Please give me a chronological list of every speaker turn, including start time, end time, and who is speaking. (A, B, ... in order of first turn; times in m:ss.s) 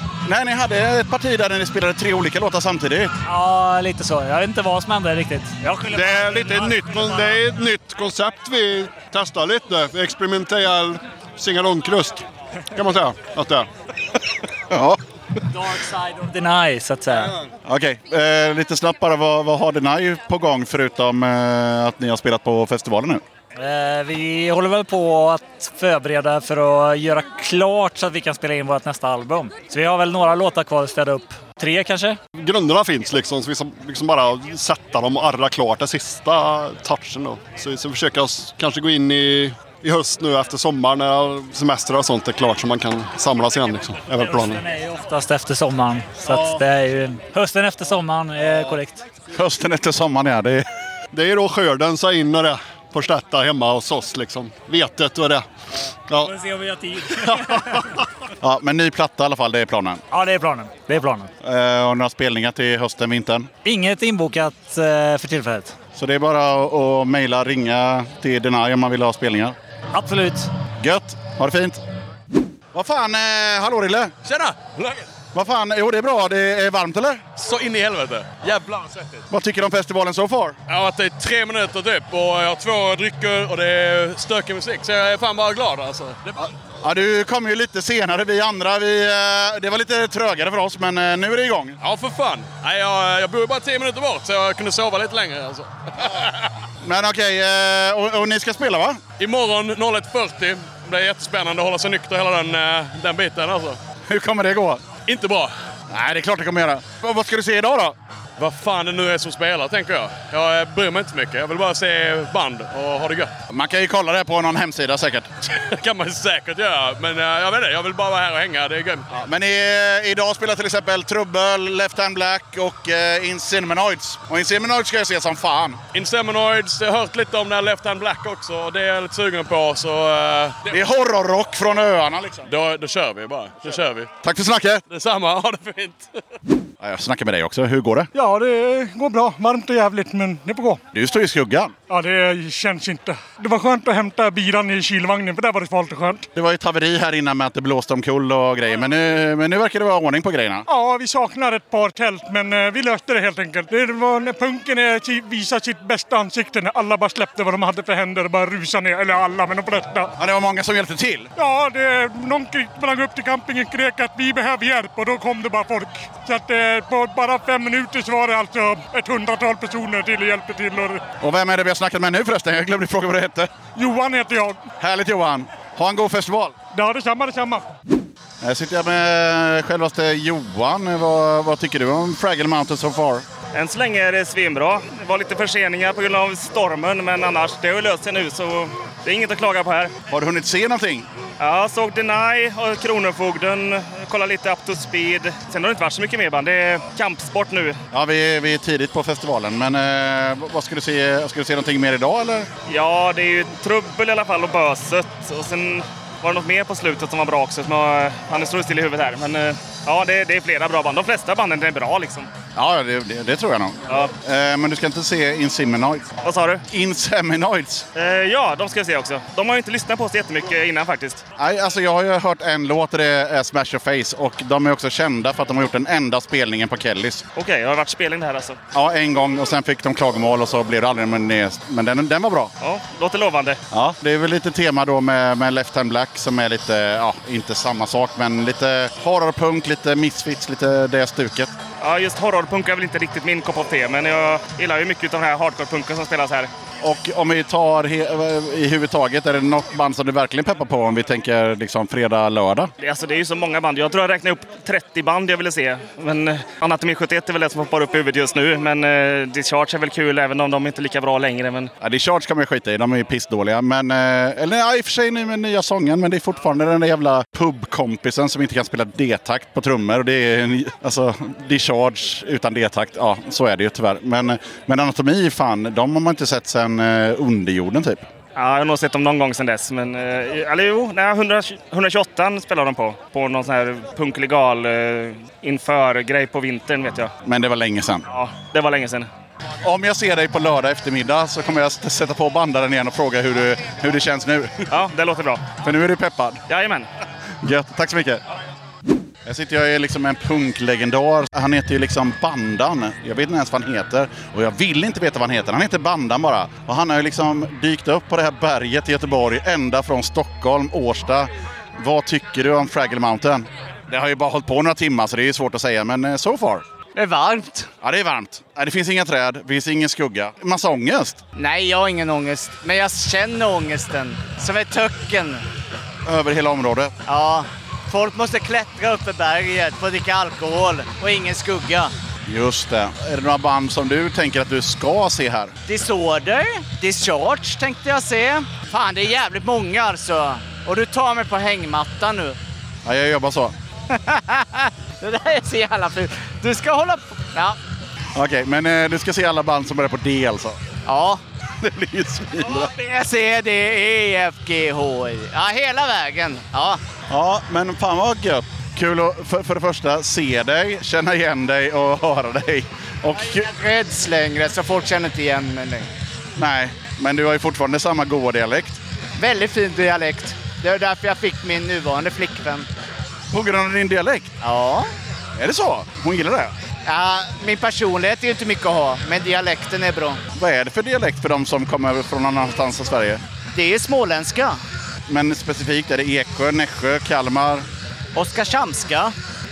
0:00.2-0:03.1 A
0:03.2-0:07.3 B
0:05.9-0:13.7 C
0:14.7-0:15.0 A
0:15.5-0:17.3 B
0:17.6-0:23.2 A
0:23.5-0:32.2 B
0:32.4-0:44.6 C
0:44.1-0:49.0 B
0:46.3-0:46.6 C
0:49.3-0:50.6 A
0:51.1-0:55.4 C
0:56.1-0:56.3 C
0:56.2-0:57.7 B
0:57.1-0:57.8 C
0:58.4-1:00.0 A
1:00.1-1:01.3 B
1:01.4-1:03.5 A
1:03.6-1:05.8 B
1:06.0-1:09.5 A
1:09.9-1:10.5 B
1:10.8-1:11.8 A
1:12.7-1:14.1 A
1:14.2-1:15.0 D
1:15.3-1:17.2 A
1:17.4-1:18.9 D
1:19.3-1:20.6 A
1:20.7-1:26.2 D
1:26.8-1:31.8 A
1:31.8-1:36.3 D
1:36.8-1:39.0 A
1:39.2-1:43.8 D
1:44.1-1:44.8 A
1:45.0-1:45.5 D
1:45.9-1:47.9 A
1:48.4-1:53.3 D
1:53.5-1:55.3 A
1:55.5-1:59.0 D
1:59.1-2:05.8 A
2:05.9-2:10.8 D
2:10.7-2:12.5 A
2:12.4-2:14.1 D
2:14.2-2:14.8 A
2:14.9-2:16.1 D
2:16.8-2:18.1 A
2:18.1-2:20.8 E
2:20.9-2:21.7 A
2:21.9-2:26.3 E
2:26.3-2:30.6 A
2:30.7-2:40.1 E
2:40.2-2:41.3 A
2:41.4-2:51.0 E
2:51.2-2:53.5 A
2:53.7-2:54.6 E
2:54.8-2:56.5 A
2:56.7-2:57.6 E
2:58.4-3:03.2 A
3:03.5-3:09.9 F
3:10.1-3:11.1 A
3:11.4-3:17.8 F
3:17.9-3:22.5 A
3:22.7-3:32.3 F
3:32.5-3:36.1 A
3:36.2-3:36.6 F
3:36.7-3:37.9 A
3:37.9-3:41.2 F
3:41.4-3:47.2 A
3:47.4-3:48.6 F
3:48.7-3:52.5 A
3:52.6-3:53.6 F
3:53.7-4:01.5 A
4:01.8-4:06.5 F
4:06.8-4:12.7 A
4:12.8-4:21.7 F
4:21.8-4:38.1 A
4:38.4-4:47.1 F
4:47.2-4:48.0 A
4:48.1-4:49.1 F
4:49.6-4:54.7 A
4:54.7-4:55.4 F
4:55.6-4:56.4 A
4:56.5-4:56.9 F
4:57.4-4:58.2 A
4:59.2-5:16.6 A
5:16.9-5:17.7 G
5:17.8-5:21.2 A
5:21.4-5:25.4 G
5:26.0-5:26.9 A
5:27.0-5:31.9 G
5:32.3-5:35.5 A
5:35.6-5:42.4 G
5:42.8-5:43.5 A
5:43.9-5:47.6 G
5:48.1-5:50.6 A
5:50.8-5:51.2 G
5:51.6-5:52.7 A
5:52.5-5:56.8 G
5:57.1-6:03.5 A
6:03.2-6:05.9 G
6:06.4-6:08.8 A
6:09.2-6:12.6 G
6:13.3-6:14.3 A
6:14.4-6:14.9 G
6:15.4-6:16.5 A
6:16.8-6:20.2 G
6:20.3-6:23.2 A
6:23.5-6:24.6 G
6:25.1-6:27.6 A
6:28.1-6:29.1 G